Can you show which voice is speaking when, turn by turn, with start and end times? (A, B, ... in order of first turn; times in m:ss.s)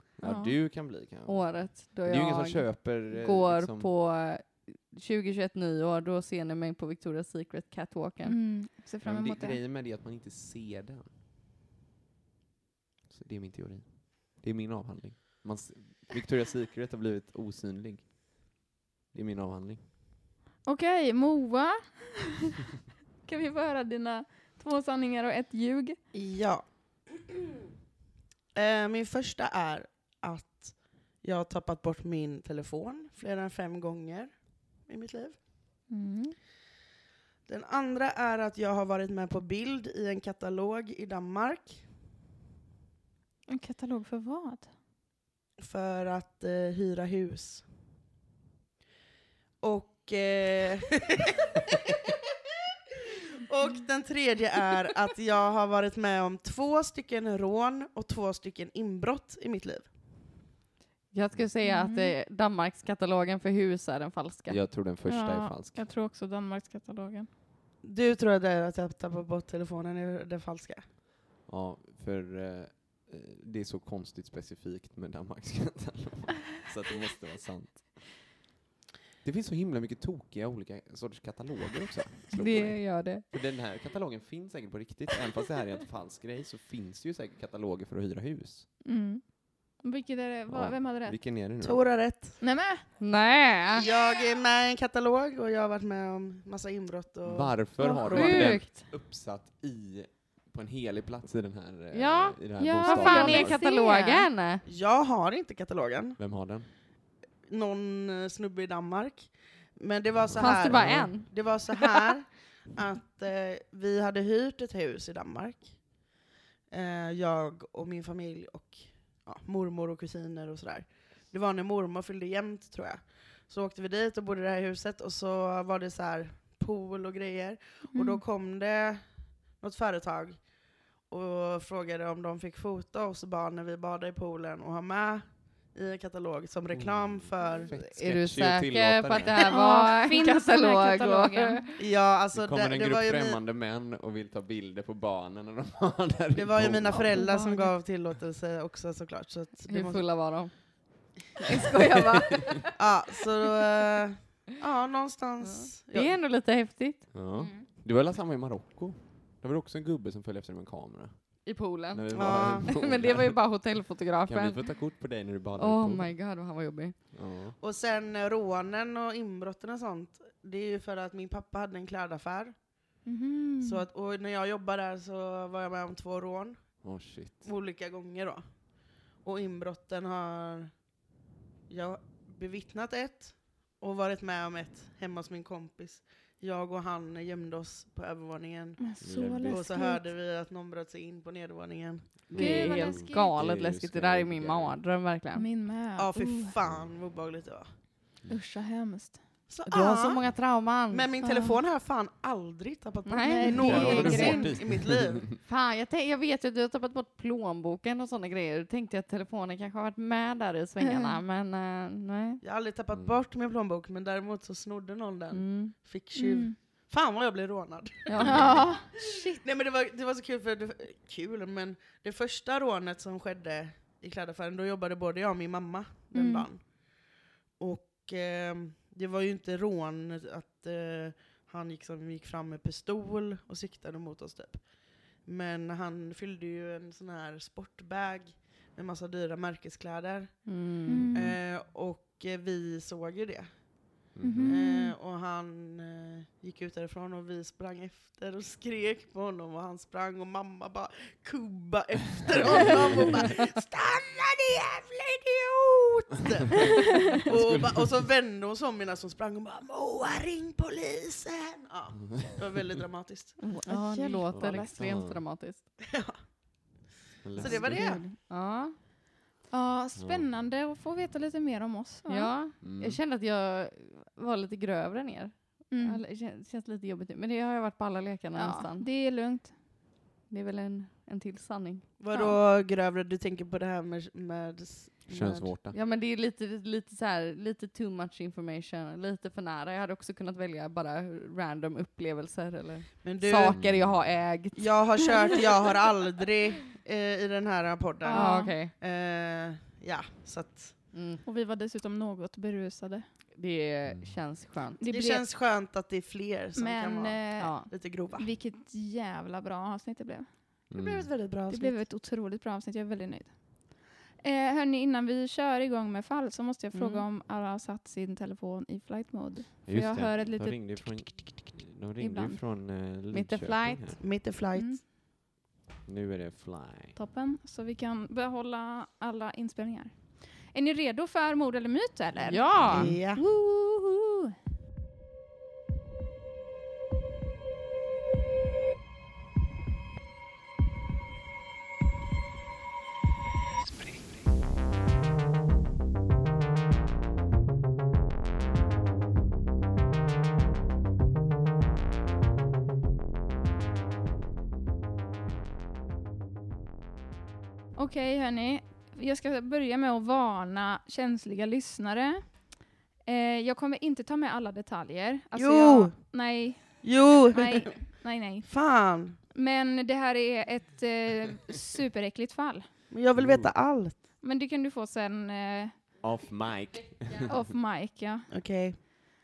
0:00.2-0:03.9 A
0:00.2-0:00.5 B
0:01.2-0:08.4 C
0:08.2-0:09.6 B
0:09.0-0:11.1 A
0:13.1-0:19.8 A
0:20.6-0:22.2 B
0:23.2-0:26.0 B
0:26.1-0:27.2 D
0:28.5-0:35.4 D
0:35.9-0:36.3 B
0:37.4-0:41.8 D
0:43.5-0:44.7 B
0:45.6-0:47.6 D
0:49.6-0:51.2 D
0:53.4-0:59.9 D
1:01.1-1:04.6 C
1:01.6-1:02.1 B
1:04.5-1:05.9 A
1:05.0-1:07.3 B
1:07.8-1:10.8 D
1:11.4-1:18.3 A
1:19.2-1:28.7 A
1:22.3-1:23.2 C
1:28.8-1:31.2 B
1:30.5-1:31.8 A
1:31.6-1:32.4 D
1:32.4-1:32.8 B
1:33.0-1:33.8 C
1:33.8-1:38.5 D
1:33.8-1:34.1 B
1:37.2-1:43.6 A
1:37.8-1:38.4 B
1:37.9-1:38.8 C
1:41.9-1:44.6 C
1:42.6-1:44.3 B
1:44.6-1:46.2 D
1:46.2-1:46.7 A
1:47.5-2:17.7 D
1:50.3-1:51.2 A
1:50.4-1:51.9 C
2:07.9-2:08.2 B
2:16.7-2:19.5 A
2:17.7-2:21.8 C
2:19.4-2:21.6 B
2:21.8-2:23.4 D
2:22.3-2:27.2 A
2:26.3-2:30.3 D
2:27.2-2:27.7 B
2:29.7-2:32.7 C
2:32.8-2:36.1 D
2:35.4-2:37.1 C
2:37.1-2:46.2 A
2:37.4-2:37.7 B
2:41.4-2:44.8 C
2:42.1-2:42.7 D
2:45.6-2:47.0 C
2:47.1-2:47.6 A
2:47.6-2:53.0 D
2:53.0-2:53.8 B
2:53.6-3:00.8 D
2:56.8-2:57.5 A
3:01.7-3:12.3 D
3:08.8-3:10.1 B
3:09.0-3:09.7 A
3:12.3-3:14.8 A
3:12.3-3:15.5 C
3:12.3-3:13.4 B
3:15.4-3:16.5 B
3:16.0-3:17.7 D
3:16.6-3:16.9 A
3:18.3-3:19.2 B
3:19.5-3:20.3 D
3:19.6-3:21.1 C
3:20.9-3:25.3 D
3:21.2-3:21.6 B
3:23.0-3:24.4 C
3:23.2-3:24.5 B
3:23.5-3:25.3 A
3:25.4-3:32.4 C
3:30.8-3:31.2 B
3:32.4-4:23.4 D
3:32.9-3:33.2 A
3:35.3-3:35.8 C
3:36.1-3:36.5 B
3:38.1-3:38.6 C
3:38.2-3:39.4 B
3:46.1-3:46.5 B
4:00.4-4:01.1 C
4:00.9-4:01.4 B
4:04.1-4:04.5 A
4:04.2-4:04.9 B
4:12.6-4:13.0 A
4:17.2-4:18.0 A
4:22.2-4:22.4 A
4:23.4-4:25.6 C
4:23.6-4:24.8 B
4:24.3-4:25.2 A
4:27.2-4:28.0 A
4:27.4-4:28.0 D
4:27.4-4:28.1 B
4:27.4-4:28.8 C
4:29.5-4:32.3 B
4:30.0-4:30.3 A
4:32.1-4:38.9 C
4:32.6-4:33.0 A
4:35.7-4:36.0 B
4:38.4-4:39.5 B
4:40.3-4:41.9 C
4:42.0-4:45.5 D
4:42.1-4:42.4 B
4:45.1-4:45.8 A
4:45.7-4:55.4 C
4:53.0-4:53.6 D
4:53.5-4:54.2 A
4:54.6-5:00.8 D
4:58.0-4:58.6 B
4:58.1-4:58.7 C
5:00.9-5:01.2 C
5:01.2-5:03.0 B
5:03.4-5:04.8 C
5:03.8-5:04.4 A
5:04.8-5:05.2 B
5:04.9-5:08.3 D
5:06.6-5:10.3 B
5:07.4-5:07.7 C
5:10.7-5:11.2 A
5:10.7-5:11.8 D
5:11.5-5:21.3 B
5:16.7-5:17.0 C
5:19.6-5:24.0 A
5:22.0-5:22.4 B
5:23.1-5:24.0 C
5:24.0-5:24.8 D
5:24.5-5:24.8 B
5:25.8-5:27.0 A
5:26.9-5:34.3 B
5:32.2-5:32.9 C
5:32.6-5:33.0 A
5:32.7-5:33.2 D
5:57.8-6:02.5 B
6:03.0-6:08.5 B
6:05.3-6:06.1 D
6:06.8-6:07.8 D
6:08.4-6:09.2 D
6:09.3-6:12.6 B
6:12.9-6:13.9 D
6:13.1-6:13.5 A
6:14.2-6:15.8 B
6:16.0-6:17.4 A
6:17.3-6:18.3 B
6:18.3-6:18.8 D